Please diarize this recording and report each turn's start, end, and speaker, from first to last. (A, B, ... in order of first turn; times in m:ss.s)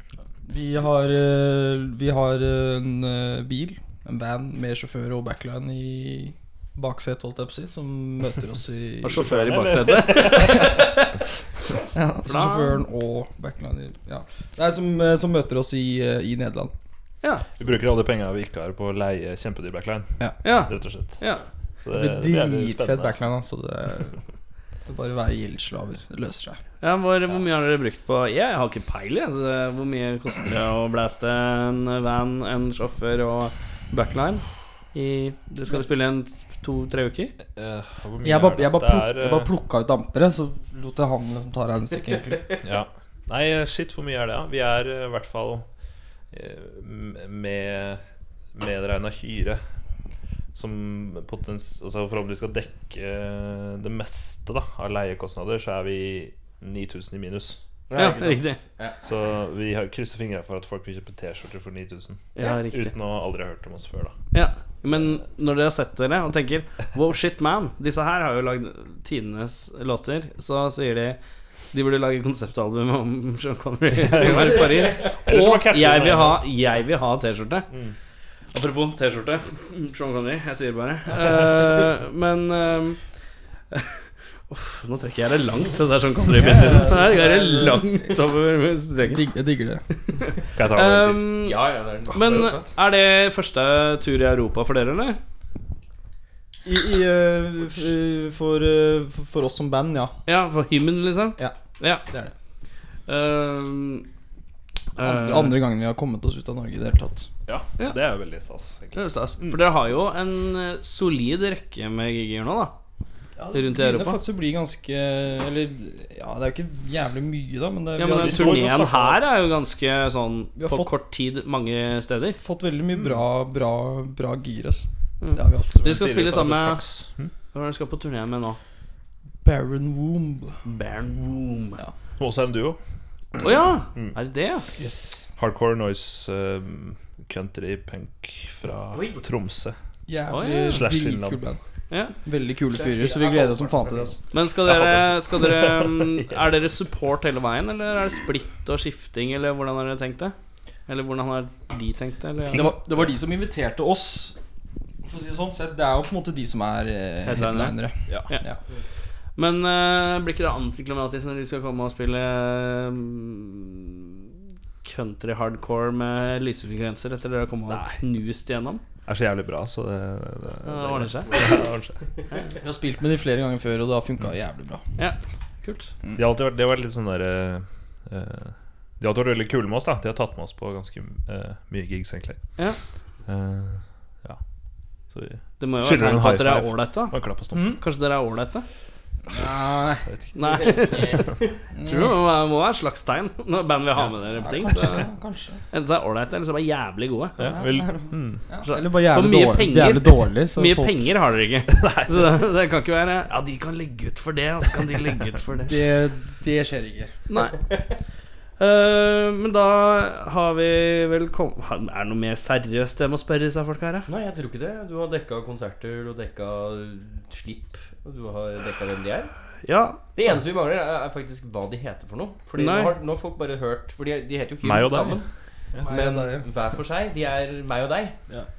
0:00.4-0:09.4 A
0:09.0-0:11.1 B
0:09.2-0:10.8 C
0:11.9-0:16.7 A
0:12.3-0:12.8 B
0:17.6-0:23.2 C
0:20.2-0:20.5 A
0:20.4-0:21.4 B
0:21.9-0:24.2 A
0:24.8-0:26.6 A
0:26.8-0:37.3 B
0:37.5-0:39.5 C
0:38.2-0:42.6 A
0:42.6-0:49.8 C
0:50.5-0:57.6 C
0:57.9-0:59.0 D
0:57.9-0:58.6 B
0:59.0-1:04.3 C
1:02.4-1:02.9 B
1:04.3-1:17.7 B
1:13.9-1:16.5 C
1:17.7-1:18.0 C
1:18.5-1:29.3 B
1:26.3-1:28.2 A
1:29.0-1:29.8 A
1:30.1-1:35.2 B
1:30.5-1:31.2 C
1:31.4-1:32.7 D
1:36.6-1:40.2 A
1:40.2-1:42.1 B
1:41.4-1:42.3 A
1:43.0-1:44.0 B
1:45.0-1:45.6 B
1:45.0-1:47.3 A
1:47.4-1:49.6 C
1:48.9-1:52.7 B
1:53.4-1:58.9 A
1:53.5-1:54.2 B
1:58.0-2:02.4 B
1:58.2-1:59.2 C
2:00.5-2:00.9 A
2:02.4-2:06.1 A
2:02.9-2:03.2 C
2:05.2-2:08.6 B
2:05.7-2:07.3 C
2:09.4-2:10.6 A
2:10.6-2:11.8 B
2:12.1-2:14.2 C
2:13.4-2:14.7 B
2:14.8-2:15.3 A
2:15.3-2:19.8 C
2:18.9-2:19.2 D
2:20.1-2:21.6 A
2:20.3-2:20.8 B
2:20.7-2:21.5 C
2:22.2-2:24.2 A
2:22.7-2:24.1 D
2:24.3-2:32.7 B
2:24.5-2:26.8 C
2:32.5-2:32.9 C
2:32.5-2:34.4 A
2:35.0-2:38.6 A
2:37.2-2:38.4 B
2:38.1-2:38.4 C
2:39.2-2:44.1 B
2:44.8-2:48.8 B
2:47.7-2:48.0 C
2:49.0-2:52.2 C
2:50.6-2:51.4 B
2:51.3-2:51.7 D
2:52.6-2:54.8 A
2:55.0-2:55.9 B
2:56.1-3:07.7 C
3:02.6-3:02.8 B
3:05.6-3:08.6 B
3:07.5-3:07.8 A
3:09.3-3:10.1 A
3:10.1-3:11.3 C
3:10.3-3:15.2 B
3:10.6-3:11.5 D
3:11.7-3:12.2 A
3:14.3-3:15.6 A
3:14.7-3:15.0 C
3:15.7-3:17.4 B
3:17.4-3:18.6 C
3:17.4-3:21.1 A
3:18.6-3:25.8 B
3:21.7-3:22.3 C
3:25.6-3:27.1 A
3:27.3-3:27.6 B
3:28.6-3:34.1 B
3:34.0-3:39.5 D
3:39.6-3:40.0 B
3:40.1-3:48.2 D
3:42.6-3:43.0 B
3:44.6-3:45.9 C
3:45.8-3:46.5 A